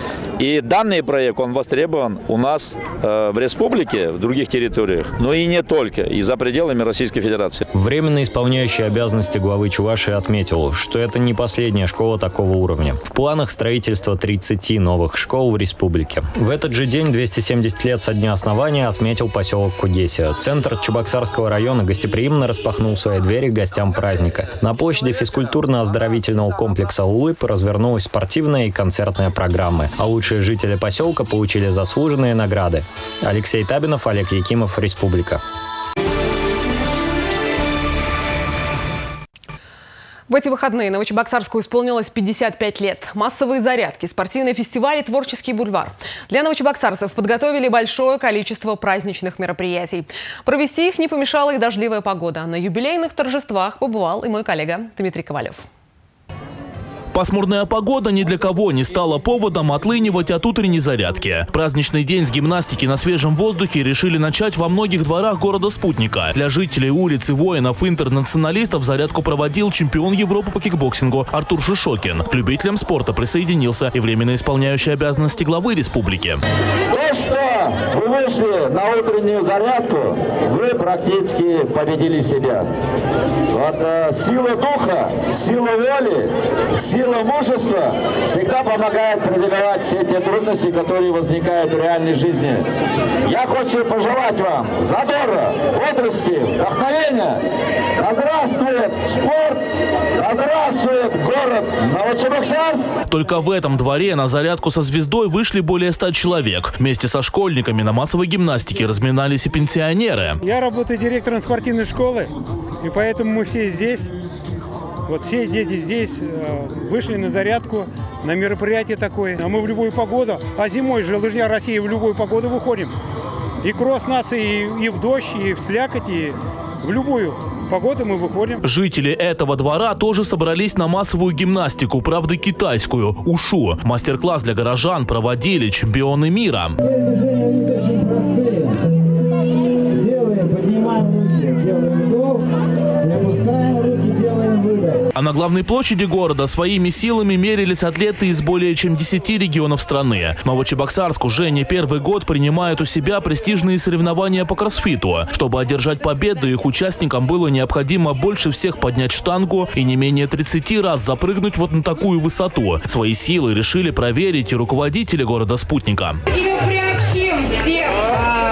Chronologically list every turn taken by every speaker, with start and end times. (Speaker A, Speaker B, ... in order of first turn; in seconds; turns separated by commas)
Speaker A: 0.4-7.7, Speaker B: 7.7-35.4, Speaker C: 40.3-55.6, Speaker D: 57.1-76.4, Speaker E: 76.9-82.7, Speaker E: 83.5-92.6, Speaker E: 93.2-97.4, Speaker E: 98.0-99.6, Speaker E: 100.1-102.9, Speaker D: 103.1-110.4, Speaker F: 110.5-112.3, Speaker F: 112.8-114.1, Speaker F: 115.1-122.9, Speaker F: 123.6-128.6, Speaker D: 128.6-136.8, Speaker D: 145.1-166.2